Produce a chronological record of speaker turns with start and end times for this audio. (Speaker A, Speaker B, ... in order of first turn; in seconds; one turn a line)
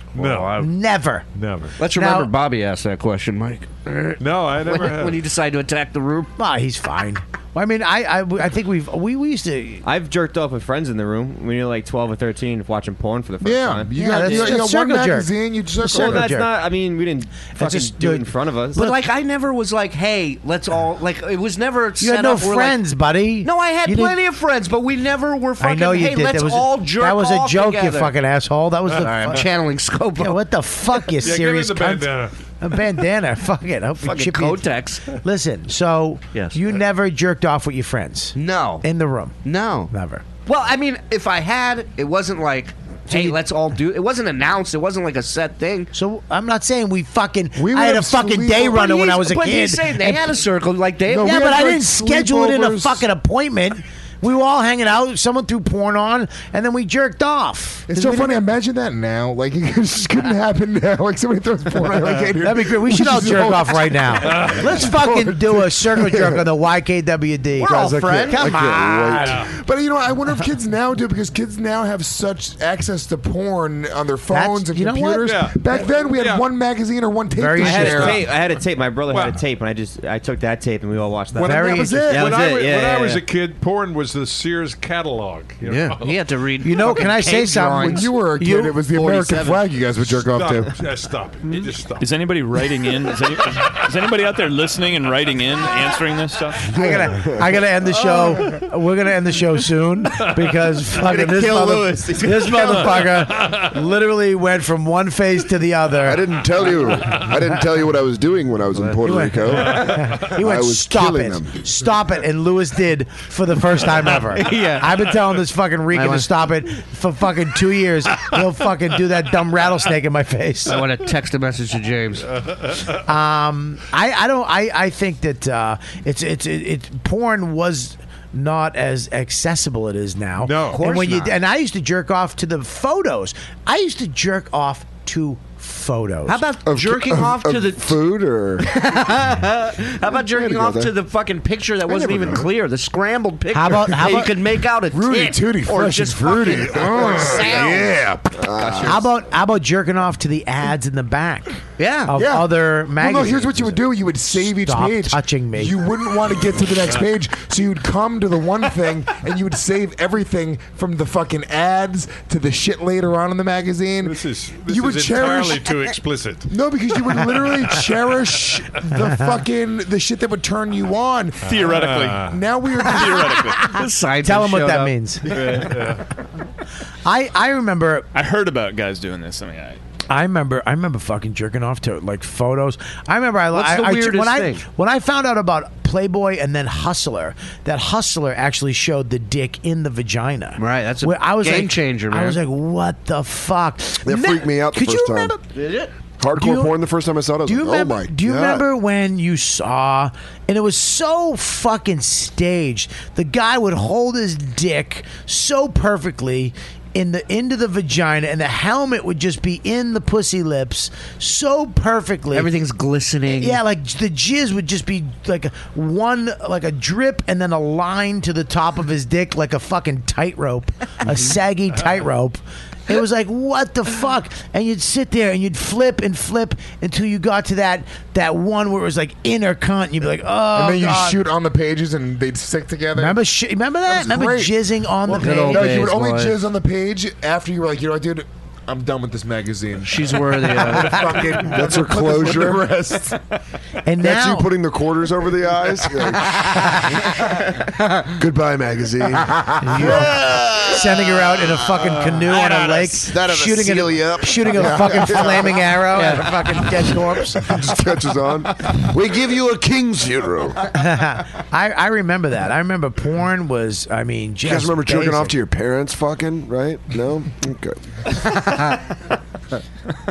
Speaker A: 0.1-0.6
Speaker B: 0.1-0.6
Speaker C: 0.6-1.2
Speaker A: 1.3-1.8
Speaker B: 1.8-6.3
Speaker C: 1.9-2.3
Speaker A: 4.2-5.2
Speaker C: 6.4-9.8
Speaker D: 9.8-14.6
Speaker E: 13.4-16.3
Speaker C: 13.9-16.5
Speaker D: 15.9-18.9
Speaker C: 17.6-18.9
Speaker B: 18.7-22.8
Speaker C: 22.0-24.2
Speaker B: 23.4-28.1
Speaker C: 25.6-29.4
Speaker B: 28.9-30.4
Speaker C: 30.2-39.4
Speaker A: 31.2-32.4
Speaker B: 34.0-35.0
Speaker B: 36.3-36.6
Speaker B: 38.3-38.8
Speaker B: 39.4-39.9
Speaker C: 39.9-40.2
Speaker B: 40.5-45.9
Speaker C: 43.1-43.4
Speaker C: 45.9-50.4
Speaker E: 47.5-48.8
Speaker B: 48.6-51.4
Speaker E: 51.1-53.0
Speaker C: 51.1-58.3
Speaker E: 57.9-66.3
Speaker C: 62.4-69.4
Speaker A: 64.2-64.8
Speaker B: 67.6-68.5
Speaker F: 67.7-69.4
Speaker A: 69.2-69.5
Speaker E: 69.5-78.2
Speaker C: 74.3-75.3
Speaker A: 75.2-76.5
Speaker C: 77.3-78.2
Speaker D: 77.6-83.2
Speaker A: 77.9-78.5
Speaker A: 79.1-79.4
Speaker A: 81.3-86.2
Speaker C: 81.4-82.1
Speaker E: 81.4-82.5
Speaker B: 85.6-88.1
Speaker C: 86.6-88.9
Speaker E: 87.8-90.7
Speaker B: 88.9-89.6
Speaker A: 90.1-92.1
Speaker G: 91.5-96.6
Speaker C: 96.7-106.2
Speaker F: 96.7-97.5
Speaker D: 101.0-102.9
Speaker A: 102.5-103.7
Speaker F: 106.0-111.5
Speaker C: 109.0-120.8
Speaker B: 114.3-115.0
Speaker B: 115.9-116.4
Speaker B: 120.7-122.3
Speaker C: 123.0-136.4
Speaker A: 130.4-130.8
Speaker B: 130.7-131.3
Speaker B: 136.2-138.0
Speaker F: 136.6-138.7
Speaker B: 138.6-148.0
Speaker F: 140.0-140.9
Speaker F: 141.9-142.5
Speaker C: 143.5-144.3
Speaker E: 144.9-148.4
Speaker F: 147.1-147.4
Speaker F: 148.4-149.1
Speaker B: 148.5-149.0
Speaker C: 148.8-155.8
Speaker B: 151.8-152.2
Speaker E: 152.2-165.7
Speaker A: 164.0-166.5
Speaker E: 166.5-173.4
Speaker A: 167.1-167.9
Speaker G: 171.4-173.8
Speaker A: 171.5-172.4
Speaker B: 173.6-175.6
Speaker C: 174.2-175.6
Speaker A: 175.3-176.0
Speaker C: 177.0-178.1
Speaker G: 178.1-179.8
Speaker C: 180.1-195.4
Speaker B: 183.5-184.6
Speaker B: 190.6-192.4
Speaker F: 194.0-195.3
Speaker B: 195.5-195.9
Speaker F: 196.2-198.6
Speaker C: 196.3-196.7
Speaker C: 197.4-212.5
Speaker B: 212.3-213.6
Speaker C: 213.4-231.2
Speaker E: 230.5-233.2
Speaker C: 232.9-235.9
Speaker E: 233.8-243.2
Speaker B: 235.1-236.4
Speaker B: 239.8-241.3
Speaker F: 241.4-242.7
Speaker C: 243.8-244.5
Speaker F: 244.0-246.6
Speaker B: 247.8-248.1
Speaker F: 248.2-255.8
Speaker E: 249.3-250.0
Speaker C: 249.6-257.5
Speaker B: 255.9-256.3
Speaker F: 257.3-260.6
Speaker C: 260.7-265.3
Speaker F: 264.4-267.8
Speaker B: 268.1-268.9